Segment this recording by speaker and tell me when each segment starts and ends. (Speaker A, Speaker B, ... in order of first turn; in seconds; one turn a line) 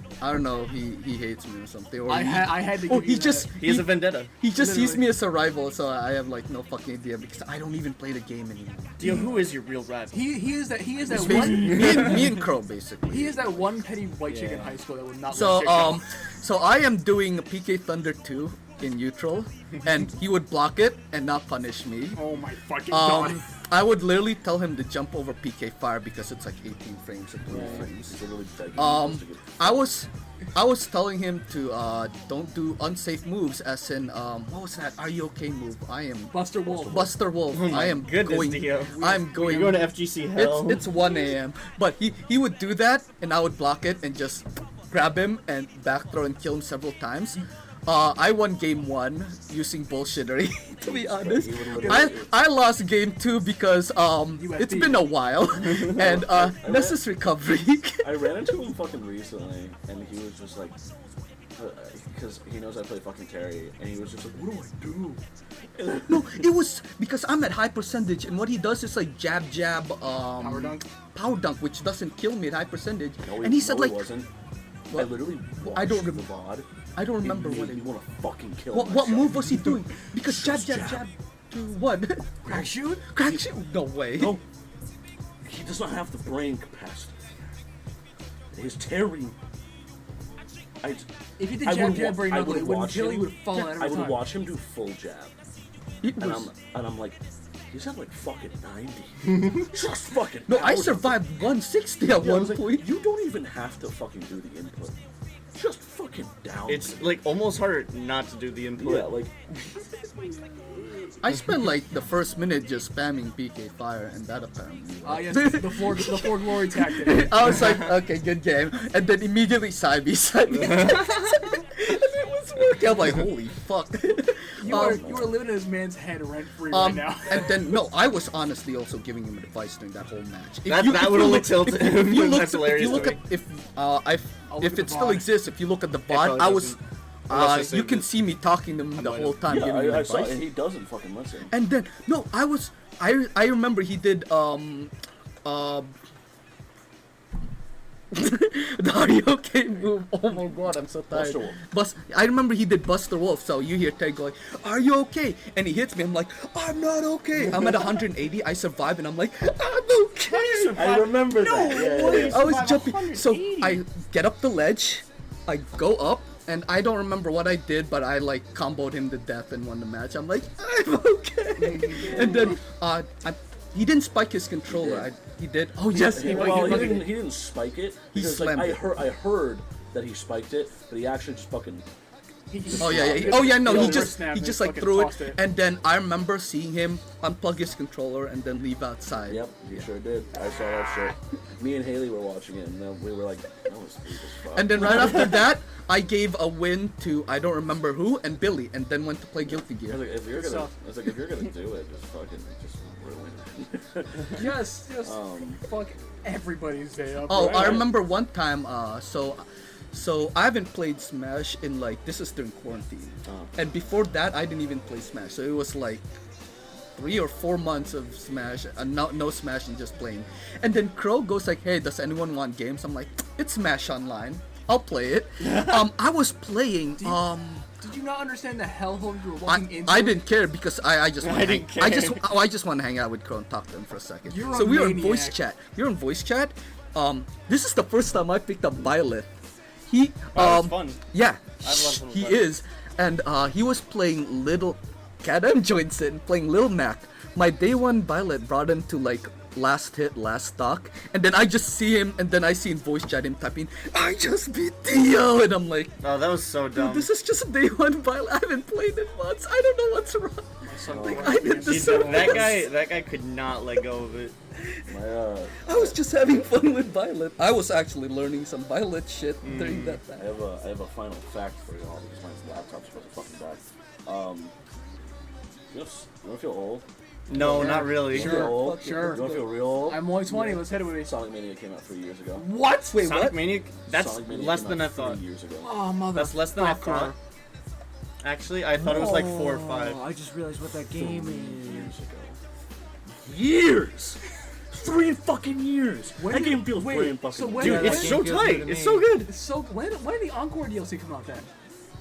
Speaker A: 0.2-9.3
Speaker B: 2.0-3.5
Speaker C: 3.5-4.3
Speaker B: 4.4-5.1
Speaker C: 9.0-10.4
Speaker B: 10.1-12.3
Speaker A: 11.1-13.6
Speaker B: 13.1-16.0
Speaker D: 14.3-14.8
Speaker A: 15.3-22.2
Speaker B: 22.1-23.4
Speaker A: 22.9-28.2
Speaker E: 27.5-29.8
Speaker A: 28.8-58.1
Speaker B: 36.3-37.1
Speaker E: 36.7-37.1
Speaker C: 37.5-40.8
Speaker B: 38.8-39.8
Speaker E: 50.8-52.3
Speaker B: 51.8-52.1
Speaker B: 54.4-55.1
Speaker E: 55.7-57.0
Speaker E: 58.0-60.8
Speaker E: 61.6-65.2
Speaker E: 65.8-66.4
Speaker A: 66.1-74.1
Speaker B: 70.4-70.8
Speaker E: 73.2-74.3
Speaker A: 74.9-76.2
Speaker E: 74.9-76.7
Speaker A: 77.0-78.0
Speaker E: 77.2-81.0
Speaker A: 78.7-82.3
Speaker E: 82.4-83.4
Speaker B: 82.5-83.0
Speaker A: 83.0-84.4
Speaker E: 84.2-84.4
Speaker E: 85.4-87.1
Speaker E: 88.5-89.3
Speaker E: 90.8-95.3
Speaker B: 91.4-94.3
Speaker A: 96.0-96.5
Speaker E: 96.2-101.3
Speaker A: 100.5-102.9
Speaker E: 102.1-104.9
Speaker E: 105.5-107.0
Speaker C: 106.7-109.1
Speaker E: 108.8-109.3
Speaker A: 111.2-125.3
Speaker B: 115.0-117.5
Speaker B: 124.6-127.6
Speaker E: 124.6-125.2
Speaker A: 126.7-136.8
Speaker C: 130.7-133.2
Speaker B: 134.5-135.3
Speaker C: 136.1-136.8
Speaker C: 137.3-138.1
Speaker A: 137.3-140.5
Speaker C: 139.0-139.4
Speaker E: 139.4-141.5
Speaker A: 141.5-144.9
Speaker A: 145.4-145.9
Speaker A: 148.1-161.1
Speaker E: 151.1-151.6
Speaker E: 160.4-162.6
Speaker C: 160.7-163.8
Speaker A: 161.7-177.1
Speaker B: 171.6-172.6
Speaker E: 174.7-175.1
Speaker E: 175.9-181.8
Speaker B: 176.1-177.2
Speaker A: 178.1-178.9
Speaker B: 182.5-185.4
Speaker E: 182.7-184.2
Speaker A: 182.8-189.5
Speaker E: 189.3-195.3
Speaker A: 194.5-200.1
Speaker E: 199.5-205.6
Speaker B: 200.3-200.7
Speaker B: 204.3-207.9
Speaker E: 207.3-207.9
Speaker A: 207.3-216.1
Speaker A: 216.9-227.7
Speaker C: 225.4-225.9
Speaker B: 227.0-227.2
Speaker B: 227.8-230.2
Speaker A: 229.4-239.3
Speaker C: 231.2-232.3
Speaker B: 234.3-235.4
Speaker A: 239.9-256.0
Speaker C: 240.3-241.0
Speaker C: 241.6-242.5
Speaker C: 256.0-257.1
Speaker A: 256.7-262.6
Speaker B: 260.6-262.6
Speaker E: 260.9-261.9
Speaker C: 261.6-264.3
Speaker E: 264.9-265.9
Speaker A: 265.6-270.4
Speaker C: 269.4-270.0
Speaker E: 270.1-274.5
Speaker E: 275.7-282.5
Speaker C: 277.3-278.5
Speaker A: 277.4-279.2
Speaker B: 277.6-281.1
Speaker B: 282.4-283.0
Speaker A: 282.9-283.4
Speaker C: 282.9-285.2
Speaker E: 283.9-285.7
Speaker B: 285.6-287.1
Speaker D: 285.6-286.6
Speaker C: 286.1-287.1
Speaker C: 288.2-290.0
Speaker D: 288.8-291.9
Speaker E: 290.9-292.4
Speaker E: 293.2-294.2
Speaker E: 294.7-298.2
Speaker B: 296.2-298.3
Speaker D: 297.6-299.2
Speaker C: 297.6-299.3
Speaker B: 299.2-301.5